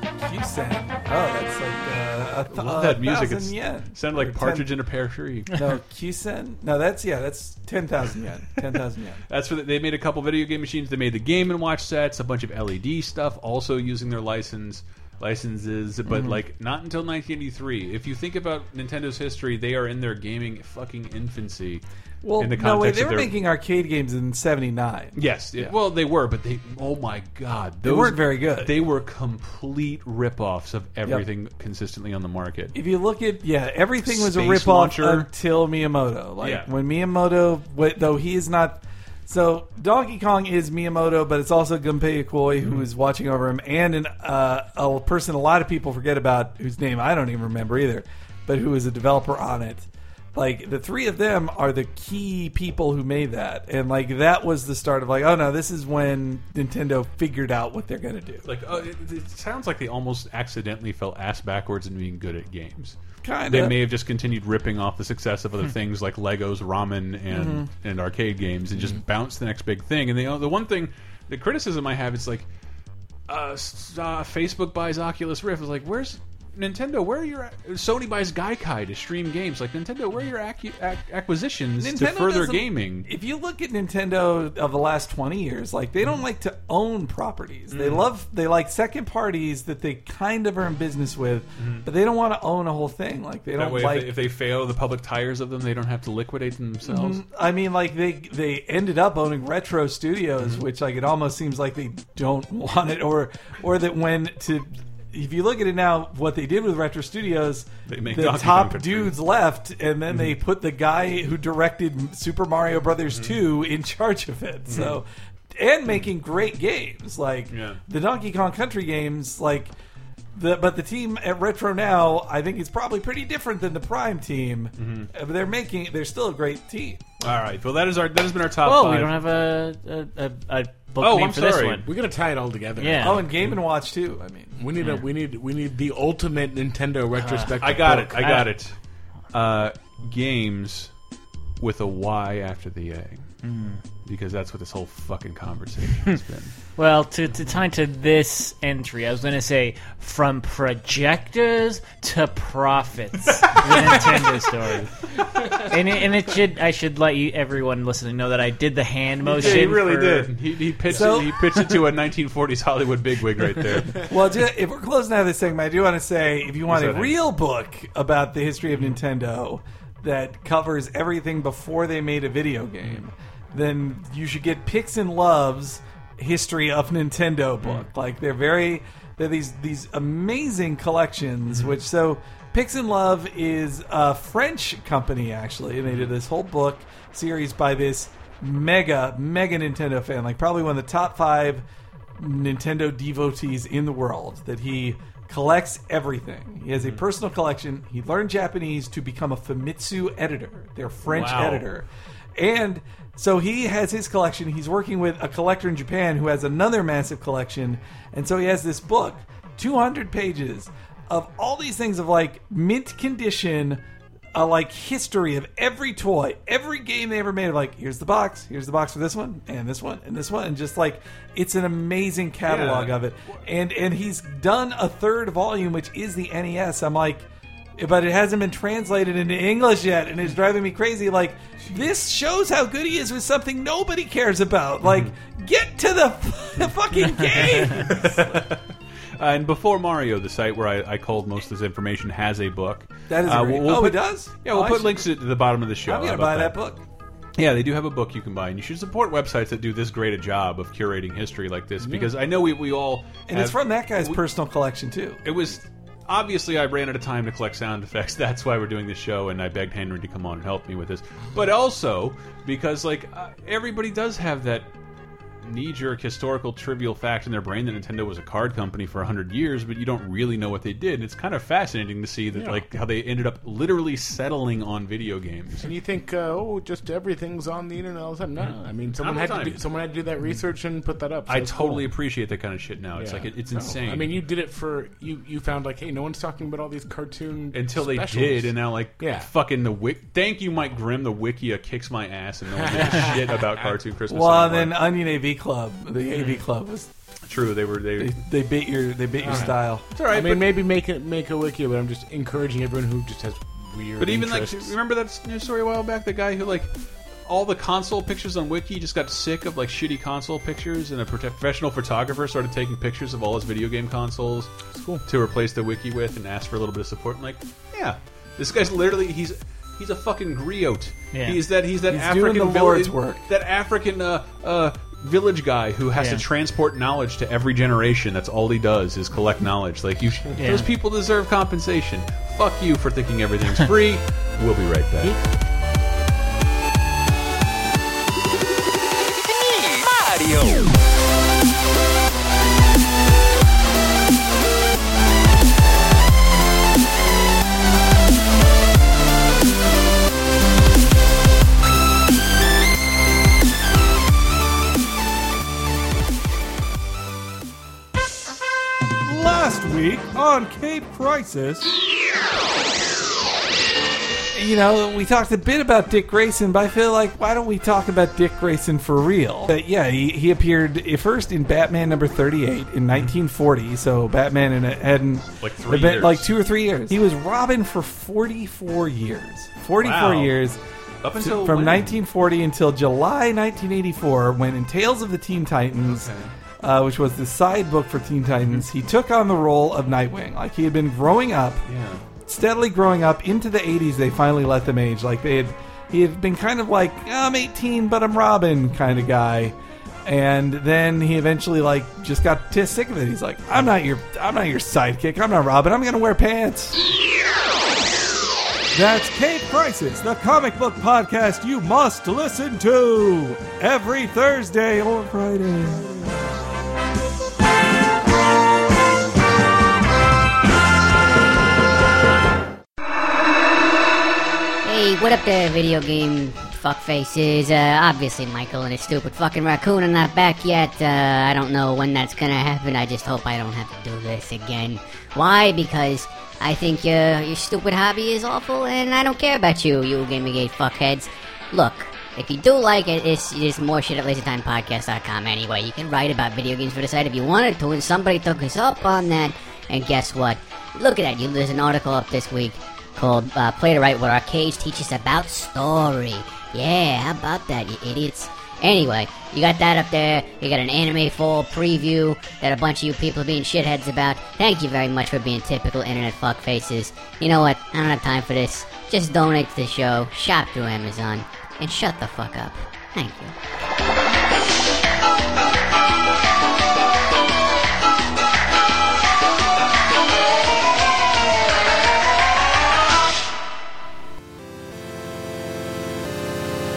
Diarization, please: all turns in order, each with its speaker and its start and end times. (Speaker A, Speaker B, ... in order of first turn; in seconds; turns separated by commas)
Speaker A: 0.2-4.7, Speaker B: 2.5-5.5, Speaker A: 5.5-9.2, Speaker B: 9.3-21.8, Speaker A: 16.1-16.4, Speaker A: 22.2-25.7, Speaker B: 22.4-23.4, Speaker B: 25.1-32.7, Speaker A: 27.8-28.7, Speaker A: 32.7-58.8, Speaker B: 34.0-35.3, Speaker B: 36.4-36.7, Speaker B: 58.4-63.0, Speaker A: 63.2-63.8, Speaker B: 63.5-72.5, Speaker A: 67.3-67.7, Speaker B: 73.3-83.1, Speaker A: 81.8-94.1, Speaker B: 87.7-88.1, Speaker B: 91.6-91.9, Speaker B: 93.6-97.2, Speaker A: 96.8-119.7, Speaker B: 107.9-109.2, Speaker B: 113.1-113.3, Speaker B: 114.7-115.0, Speaker B: 117.5-117.8, Speaker A: 120.3-127.3, Speaker B: 124.8-125.1, Speaker B: 127.2-129.2, Speaker C: 128.6-131.9, Speaker B: 131.0-131.9, Speaker D: 131.8-133.3, Speaker C: 132.8-133.2, Speaker A: 133.0-134.6, Speaker D: 134.6-138.4, Speaker C: 134.8-135.1, Speaker C: 137.2-137.6, Speaker B: 137.6-138.8, Speaker C: 138.2-138.5, Speaker B: 139.3-140.9, Speaker B: 141.6-143.3, Speaker C: 143.4-143.8, Speaker B: 144.0-146.5, Speaker C: 146.8-160.3, Speaker B: 153.5-154.1, Speaker B: 159.2-164.1, Speaker A: 160.9-161.3, Speaker A: 163.9-191.6, Speaker B: 166.7-167.2, Speaker B: 181.5-181.7, Speaker B: 185.9-186.1, Speaker A: 192.2-213.8, Speaker B: 196.7-197.0, Speaker B: 201.1-201.7, Speaker A: 214.3-238.5, Speaker B: 222.4-223.0, Speaker B: 234.8-235.1, Speaker B: 237.3-238.6, Speaker B: 239.2-246.6, Speaker A: 243.1-245.1, Speaker A: 245.8-246.8, Speaker B: 247.4-254.2, Speaker D: 251.8-252.1, Speaker A: 253.3-255.2, Speaker B: 255.2-264.7, Speaker B: 265.4-275.7, Speaker D: 272.3-272.6, Speaker D: 275.6-281.9, Speaker B: 278.9-279.6, Speaker B: 281.3-284.1, Speaker D: 282.9-289.3, Speaker B: 287.5-294.8, Speaker D: 292.5-293.8, Speaker A: 294.1-296.9, Speaker B: 297.3-298.2, Speaker A: 298.0-299.8, Speaker D: 299.2-304.7, Speaker B: 299.9-300.5, Speaker B: 304.0-306.7, Speaker B: 307.2-314.5, Speaker D: 314.7-315.0, Speaker B: 315.1-335.2, Speaker C: 321.1-321.4, Speaker A: 321.9-323.2, Speaker C: 325.9-326.2, Speaker C: 330.4-330.7, Speaker A: 359.0-361.7, Speaker A: 364.3-380.6, Speaker B: 375.4-376.3, Speaker B: 379.8-380.4, Speaker B: 381.0-382.0, Speaker A: 381.2-386.1, Speaker B: 385.9-386.3, Speaker A: 386.6-391.6, Speaker B: 391.6-392.0, Speaker A: 392.2-406.8, Speaker A: 408.7-416.2, Speaker E: 424.6-473.3